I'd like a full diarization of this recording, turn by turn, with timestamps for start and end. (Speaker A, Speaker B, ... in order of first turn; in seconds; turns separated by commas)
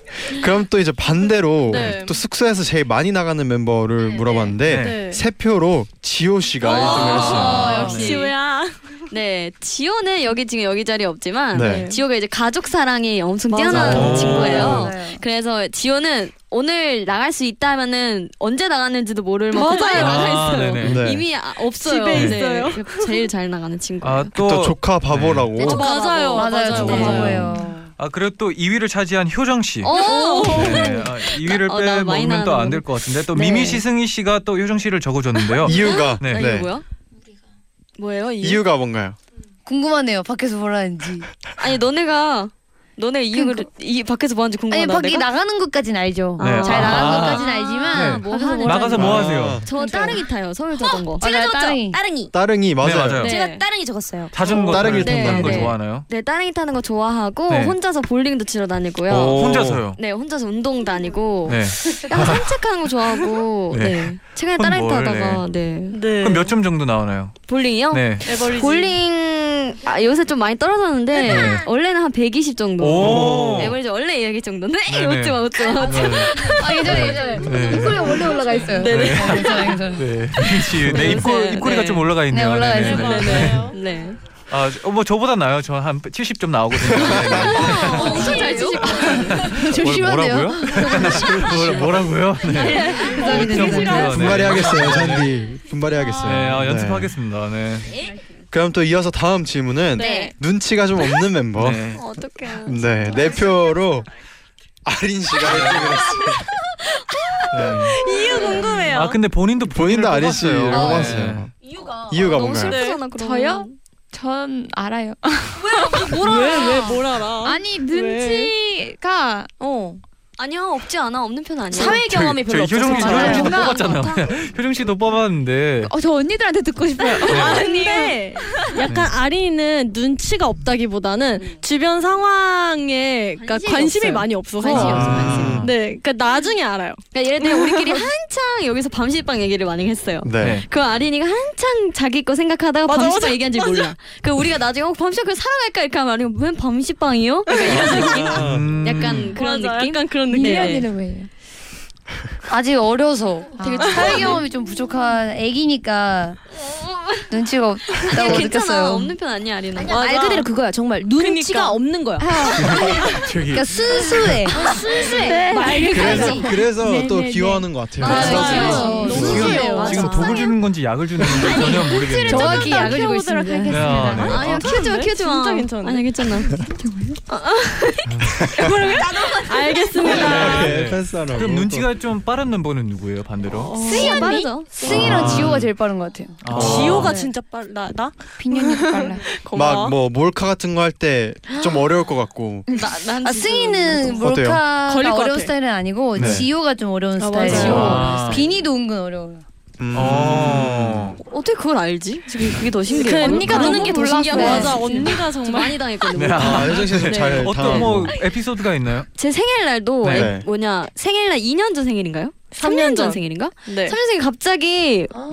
Speaker A: 0.3-7.8, Speaker B: 1.7-2.2, Speaker C: 4.7-5.0, Speaker B: 4.7-5.2, Speaker B: 6.6-8.9, Speaker D: 6.6-8.3, Speaker C: 7.0-8.1, Speaker D: 9.1-24.3, Speaker A: 11.5-11.9, Speaker B: 11.6-12.0, Speaker B: 13.5-14.8, Speaker C: 13.7-14.9, Speaker A: 13.9-14.4, Speaker E: 14.4-15.2, Speaker B: 19.5-20.5, Speaker C: 19.9-21.0, Speaker A: 20.8-21.2, Speaker B: 21.7-23.2, Speaker C: 24.0-25.5, Speaker A: 24.4-25.9, Speaker B: 25.6-27.6, Speaker D: 25.6-27.4, Speaker E: 25.8-27.9, Speaker C: 28.0-36.5, Speaker D: 29.8-33.8, Speaker B: 29.9-31.0, Speaker A: 35.6-36.7, Speaker D: 35.7-36.8, Speaker D: 38.0-38.6, Speaker A: 38.4-39.2, Speaker E: 39.6-41.3, Speaker D: 41.6-45.3, Speaker E: 43.3-43.7, Speaker E: 44.7-49.2, Speaker D: 46.4-51.3, Speaker C: 46.4-49.6, Speaker A: 49.0-49.7, Speaker E: 49.8-50.2, Speaker F: 50.9-52.3, Speaker E: 51.2-52.0, Speaker A: 52.3-53.3, Speaker C: 52.8-53.3, Speaker F: 53.2-54.3, Speaker D: 53.2-53.6, Speaker C: 54.3-56.0, Speaker D: 54.4-66.0, Speaker A: 54.6-55.7, Speaker C: 57.5-57.8, Speaker A: 59.1-59.8, Speaker C: 59.3-60.0, Speaker C: 61.5-62.6, Speaker C: 63.7-65.4, Speaker B: 65.9-66.5, Speaker C: 66.2-68.3, Speaker D: 67.5-78.1, Speaker B: 68.2-69.0, Speaker C: 71.2-71.6, Speaker C: 72.8-73.8, Speaker A: 73.0-73.7, Speaker C: 74.9-83.7, Speaker E: 76.4-80.1, Speaker D: 78.7-79.5, Speaker D: 80.8-82.1, Speaker E: 82.3-83.4, Speaker B: 82.7-83.8, Speaker D: 82.9-84.2, Speaker C: 84.5-88.3, Speaker A: 86.8-87.6, Speaker D: 87.5-89.5, Speaker B: 87.6-88.7, Speaker E: 87.9-91.8, Speaker F: 88.1-88.6, Speaker C: 88.9-95.3, Speaker A: 91.0-92.1, Speaker B: 92.5-94.4, Speaker D: 92.6-93.4, Speaker E: 92.7-94.2, Speaker A: 93.5-97.1, Speaker C: 96.2-97.9, Speaker A: 98.5-101.9, Speaker B: 99.9-100.3, Speaker D: 100.0-100.3, Speaker C: 101.6-102.0, Speaker D: 101.9-103.2, Speaker A: 102.6-104.1, Speaker A: 104.8-106.5, Speaker C: 105.5-106.0, Speaker C: 107.5-108.0, Speaker A: 107.5-107.9, Speaker B: 107.6-109.2, Speaker D: 108.3-108.6, Speaker C: 108.8-111.5, Speaker A: 109.7-111.5, Speaker D: 110.7-111.2, Speaker D: 111.8-113.8, Speaker A: 112.1-112.8, Speaker B: 112.6-113.0, Speaker G: 113.1-119.5, Speaker F: 115.6-116.9, Speaker B: 116.1-118.5, Speaker F: 119.6-120.0, Speaker D: 120.4-122.0, Speaker F: 121.7-123.6, Speaker C: 121.9-125.9, Speaker D: 122.9-124.2, Speaker B: 122.9-123.5, Speaker G: 123.1-123.8, Speaker G: 125.8-127.7, Speaker B: 127.1-138.0, Speaker D: 127.2-128.7, Speaker C: 127.3-127.7, Speaker C: 128.9-129.1, Speaker D: 133.4-135.6, Speaker C: 134.7-135.7, Speaker A: 134.9-135.7, Speaker D: 137.1-150.8, Speaker A: 140.2-140.6, Speaker C: 140.4-140.7, Speaker B: 142.8-143.9, Speaker B: 147.5-148.4, Speaker A: 147.7-148.8, Speaker C: 148.2-149.4, Speaker B: 149.3-150.9, Speaker G: 150.3-151.3, Speaker E: 152.5-156.4, Speaker D: 153.6-154.4, Speaker G: 153.6-154.2, Speaker B: 153.9-154.3, Speaker D: 156.6-157.3, Speaker E: 157.3-159.1, Speaker D: 158.0-160.4, Speaker F: 159.9-162.4, Speaker B: 159.9-160.5, Speaker B: 161.2-161.8, Speaker E: 162.3-164.8, Speaker B: 162.6-163.2, Speaker C: 163.1-164.4, Speaker B: 164.5-166.7, Speaker D: 164.6-166.4, Speaker F: 164.7-166.4, Speaker A: 165.9-169.5, Speaker G: 166.7-167.6, Speaker B: 168.0-170.5, Speaker D: 168.0-170.5, Speaker E: 168.1-170.1, Speaker C: 168.6-173.0, Speaker G: 168.7-169.2, Speaker F: 169.5-170.4, Speaker B: 171.4-176.1, Speaker E: 171.4-174.4, Speaker C: 173.7-174.7, Speaker D: 174.0-176.5, Speaker G: 176.6-177.2, Speaker D: 177.3-178.1, Speaker C: 178.1-178.5, Speaker B: 178.5-180.8, Speaker D: 178.8-180.5, Speaker C: 180.1-183.8, Speaker A: 180.2-181.9, Speaker B: 183.6-184.5, Speaker D: 183.8-184.8, Speaker E: 183.9-186.4, Speaker A: 184.8-185.7, Speaker C: 184.8-185.7, Speaker C: 186.4-187.2, Speaker A: 186.5-187.1, Speaker B: 186.5-190.0, Speaker E: 187.0-187.3, Speaker E: 188.4-189.2, Speaker G: 188.5-189.2, Speaker A: 189.5-192.7, Speaker D: 191.5-191.8, Speaker D: 192.7-194.2, Speaker E: 193.2-199.4, Speaker A: 194.2-194.6, Speaker B: 194.7-195.5, Speaker C: 196.2-196.4, Speaker A: 196.2-196.5, Speaker B: 197.2-198.2, Speaker C: 197.5-198.5, Speaker D: 197.5-198.3, Speaker A: 199.8-201.2, Speaker C: 199.9-201.2, Speaker D: 201.2-208.2, Speaker B: 202.9-205.8, Speaker G: 203.2-205.1, Speaker E: 204.0-204.8, Speaker C: 206.1-209.1, Speaker A: 206.4-208.1, Speaker D: 209.1-215.2, Speaker C: 210.0-210.3, Speaker A: 210.1-210.5, Speaker B: 212.5-214.0